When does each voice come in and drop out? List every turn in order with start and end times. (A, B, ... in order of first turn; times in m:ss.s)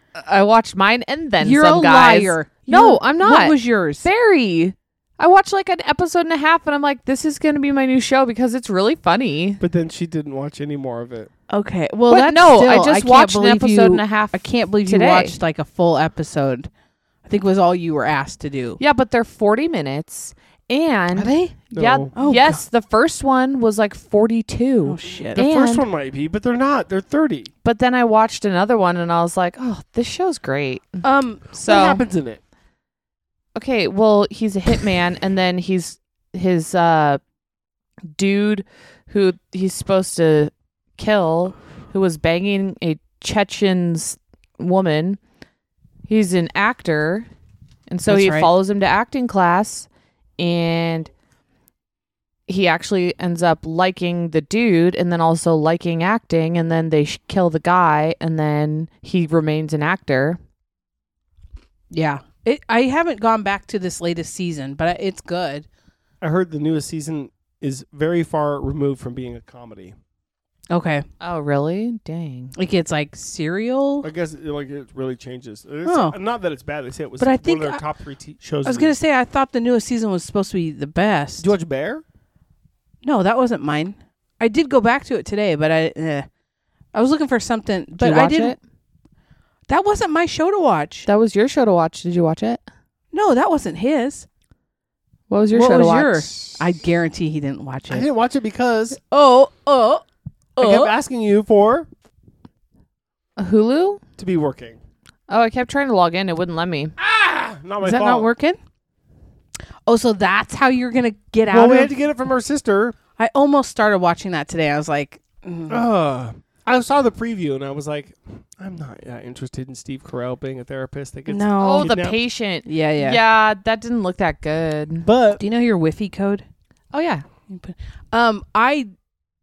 0:00.2-0:09.6 A
0:01.4-0:04.1 B
0:09.6-0:11.3 C
0:11.5-0:16.7 B
0:12.1-0:15.4 A
0:17.2-0:18.8 B
0:18.8-0:25.8 A
0:21.1-0:21.6 B
0:21.7-0:22.1 C
0:22.1-0:22.6 B
0:24.8-0:25.4 B
0:25.3-0:27.5 C
0:27.6-0:32.0 A
0:31.0-0:31.4 B
0:31.6-0:32.4 C
0:33.6-0:37.2 A
0:38.1-0:45.2 A
0:46.1-0:47.3 A
0:47.9-0:49.9 A
0:48.0-0:48.5 B
0:50.4-0:51.1 A
0:52.5-1:00.4 A
1:01.9-1:05.7 B
1:06.2-1:10.0 C
1:10.7-1:11.0 B
1:11.2-1:12.5 A
1:12.5-1:14.1 B
1:14.0-1:18.9 C
1:15.8-1:16.2 B
1:17.2-1:17.8 B
1:18.6-1:21.5 B
1:21.4-1:22.0 C
1:23.0-1:26.3 B
1:26.9-1:28.6 B
1:28.0-1:28.6 A
1:29.7-1:31.1 B
1:31.0-1:32.6 A
1:33.1-1:34.3 B
1:35.3-1:36.4 A
1:35.5-1:38.0 B
1:37.9-1:39.0 C
1:39.0-1:40.0 B
1:40.6-1:40.9 B
1:40.6-1:41.9 C
1:43.4-1:44.0 A
1:44.2-1:44.8 C
1:45.3-1:46.9 A
1:47.0-1:48.3 C
1:47.8-1:48.6 B
1:49.8-1:51.9 B
1:51.5-1:53.0 C
1:53.2-1:55.8 B
1:55.7-2:02.2 C
2:01.3-2:01.9 B
2:01.6-2:05.1 A
2:02.6-2:03.2 B
2:05.0-2:05.4 C
2:05.4-2:06.4 B
2:06.9-2:07.2 A
2:07.5-2:08.9 B